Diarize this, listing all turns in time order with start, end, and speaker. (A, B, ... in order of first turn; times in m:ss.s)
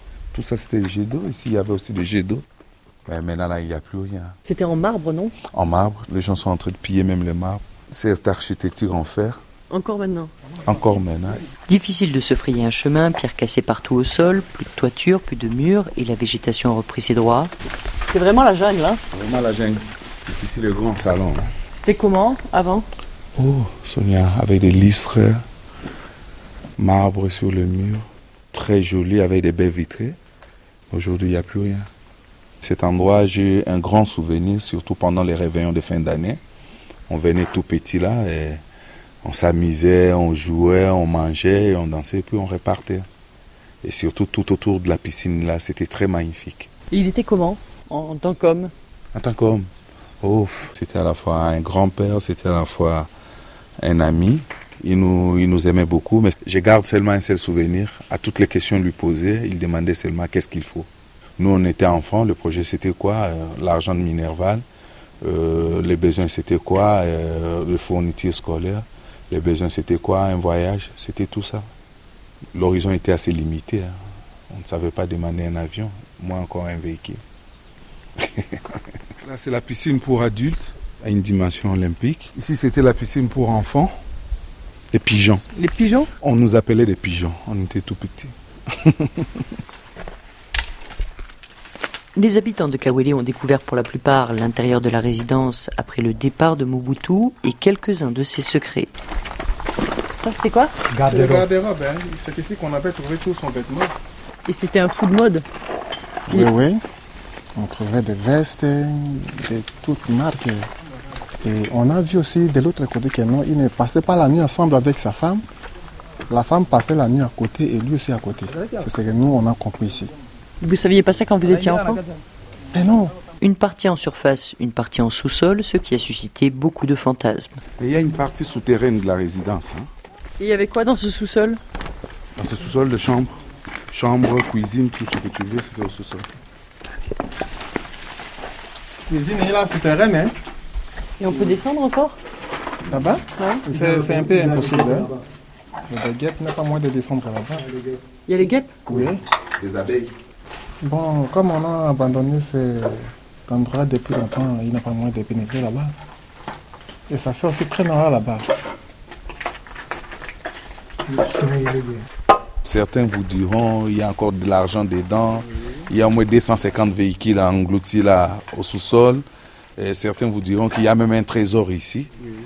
0:00.3-0:02.4 A
0:03.1-0:04.4 A
0:04.4-0:05.4 B
0:05.5-0:09.4 A
0:09.7-0:10.3 B
0:10.7-0:11.4 A
0:11.7-0:17.5 C
0:18.0-0:19.0 B
0:19.1-0:21.5 A
0:21.7-0:22.9 B
0:23.4-0:25.4 A
0:26.8-0:30.2 A
0:30.9-0:31.9 A
0:32.6-0:36.4 A
0:37.1-0:38.6 A
0:39.2-0:43.1 A
0:43.8-0:46.7 A
0:46.9-0:48.7 B
0:49.1-0:49.7 A
0:50.2-0:53.1 A
0:53.8-1:04.6 A
1:05.2-1:11.7 A
1:12.5-1:14.0 A
1:14.5-1:17.2 A
1:18.2-1:18.6 A
1:19.2-1:23.9 A
1:24.9-1:25.4 A
1:25.6-1:26.1 B
1:26.2-1:29.4 A
1:32.2-1:38.9 C
1:40.2-1:40.9 B
1:41.0-1:43.9 D
1:44.4-1:45.4 B
1:46.3-1:46.8 D
1:47.6-1:50.7 D
1:51.4-1:55.4 D
1:56.3-2:00.1 D
2:00.6-2:02.0 B
2:02.7-2:03.1 D
2:03.4-2:07.6 C
2:07.8-2:09.9 A
2:10.4-2:11.6 B
2:12.4-2:13.4 A
2:13.9-2:16.3 A
2:19.1-2:20.3 D
2:21.2-2:22.2 B
2:22.9-2:25.2 D
2:23.4-2:23.7 B
2:25.9-2:27.7 D
2:28.3-2:28.8 B
2:28.9-2:29.2 D
2:28.9-2:30.1 A
2:30.8-2:36.0 D
2:37.1-2:38.5 D
2:42.6-2:49.2 A
2:49.8-2:52.1 A